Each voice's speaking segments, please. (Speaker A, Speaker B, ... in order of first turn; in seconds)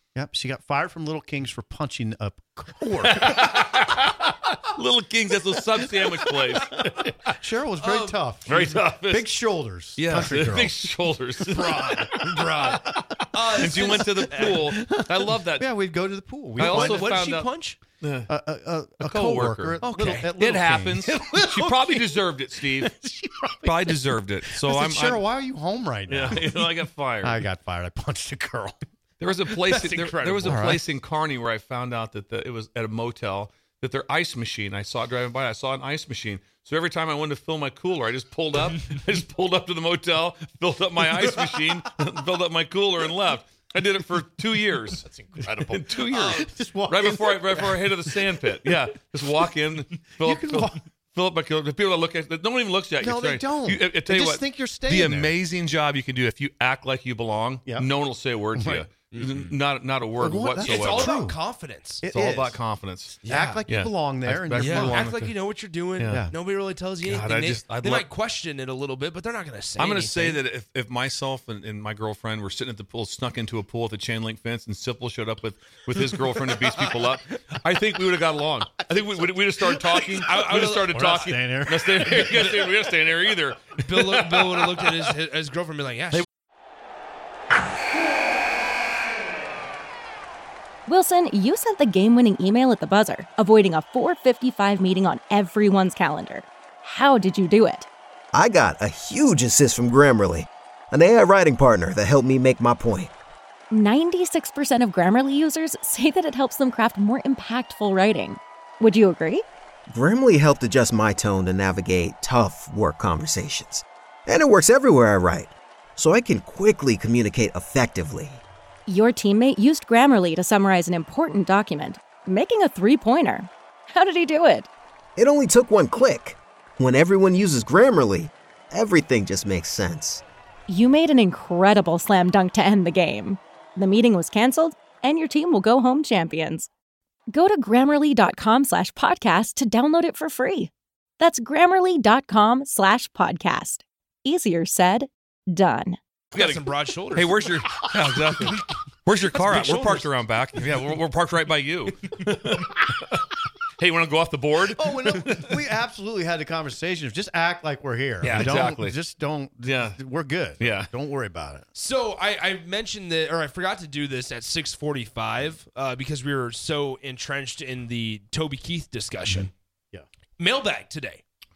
Speaker A: 0.1-3.5, 6.0-10.9, 12.6-17.2, 18.3-24.0, 24.5-26.7, 27.2-28.8, 30.5-30.9, 45.3-48.3, 50.2-50.8, 53.0-55.4, 58.5-58.9, 60.2-61.4, 62.0-65.1, 80.5-82.7, 154.8-161.7
Speaker B: 3.0-7.3, 8.5-9.3, 10.0-15.7, 16.6-17.5, 18.0-18.3, 19.0-23.0, 23.6-25.2, 26.1-27.4, 29.2-61.1, 62.1-65.3, 65.9-66.3, 67.0-68.1, 69.8-85.1, 146.4-155.6, 158.2-159.0, 159.6-160.0, 160.6-160.9
Speaker C: 7.8-8.2, 11.5-14.7, 16.6-17.8, 19.8-20.3, 29.6-30.8, 46.1-46.5, 59.1-59.5, 60.6-62.0, 63.2-63.6, 64.6-70.4, 80.2-81.3, 83.8-86.3, 146.3-147.4, 149.3-150.2, 161.7-169.5, 170.4-171.2
Speaker D: 90.9-97.9, 103.7-109.4, 118.9-124.7, 130.7-136.7, 137.3-146.0
Speaker E: 98.3-103.1, 109.9-118.4, 125.2-130.2